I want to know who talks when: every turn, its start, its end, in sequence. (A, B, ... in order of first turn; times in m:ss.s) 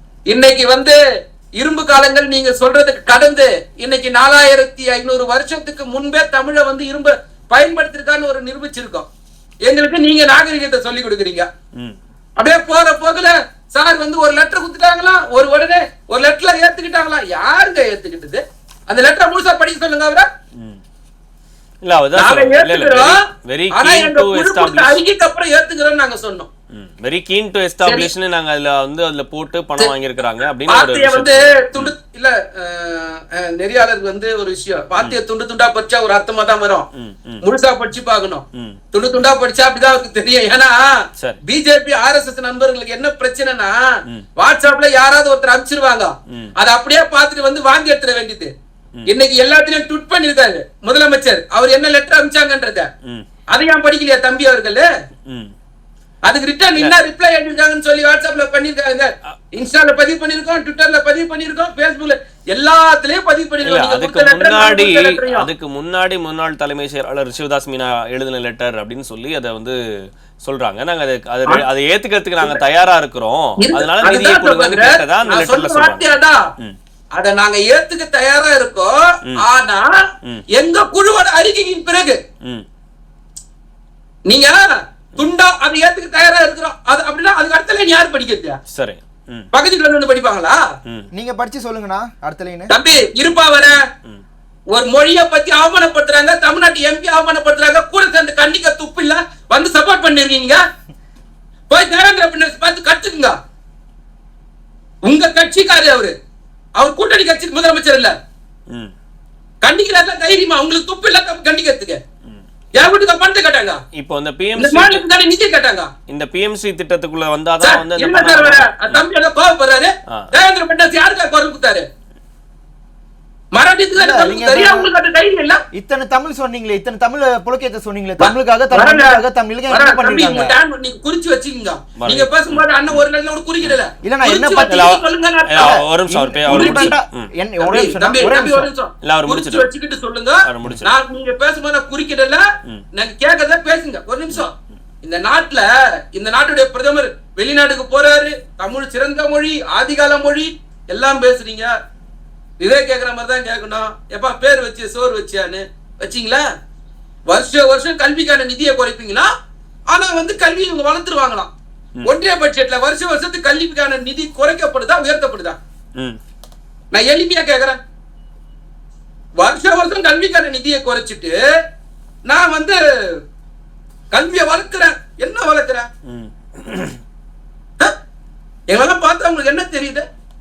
0:00.3-0:01.0 A
0:01.6-0:09.1 A
0:09.7-0:11.5 A
0:12.4-0:20.3 A
0:21.8-0:25.0 B
0:22.2-0:23.2 A
0:23.7-0:26.5 A
0:26.7-0:31.9 B
0:30.7-0:36.9 A
0:37.0-0:37.4 B
0:37.4-0:40.9 A
0:41.5-0:43.8 A
0:44.4-0:48.5 A
0:49.1-0:52.9 A
0:53.5-0:54.9 A
0:55.3-0:55.5 B
0:56.3-1:05.5 A
1:03.6-1:09.8 B
1:10.4-1:16.0 B
1:13.6-1:16.4 A
1:17.2-1:20.0 A
1:20.6-1:22.2 A
1:24.3-1:28.6 A
1:28.7-1:29.5 B
1:29.5-1:30.6 A
1:31.1-1:32.7 C
1:32.7-1:33.8 A
1:34.7-1:40.6 A
1:41.7-1:43.4 A
1:45.1-1:46.1 A
1:46.8-1:48.1 A
1:49.6-1:52.0 A
1:52.8-1:53.8 A
1:54.0-1:55.0 B
1:54.6-1:55.9 A
1:56.1-1:59.0 B
1:57.6-2:01.9 A
2:03.5-2:05.6 A
2:04.0-2:04.9 C
2:05.7-2:10.6 C
2:08.2-2:15.8 A
2:12.0-2:13.0 B
2:14.0-2:15.0 C
2:14.6-2:17.3 B
2:15.6-2:18.7 C
2:16.5-2:16.9 A
2:17.6-2:22.4 A
2:19.0-2:19.7 B
2:20.4-2:20.9 B
2:23.0-2:31.8 A
2:32.6-2:36.4 A
2:37.3-2:39.3 A
2:39.9-2:41.5 A
2:42.0-2:45.6 A
2:46.9-2:47.8 A
2:49.4-2:51.4 A
2:52.3-2:52.8 A
2:54.1-2:55.9 A
2:56.1-2:57.0 B
2:58.7-3:00.1 A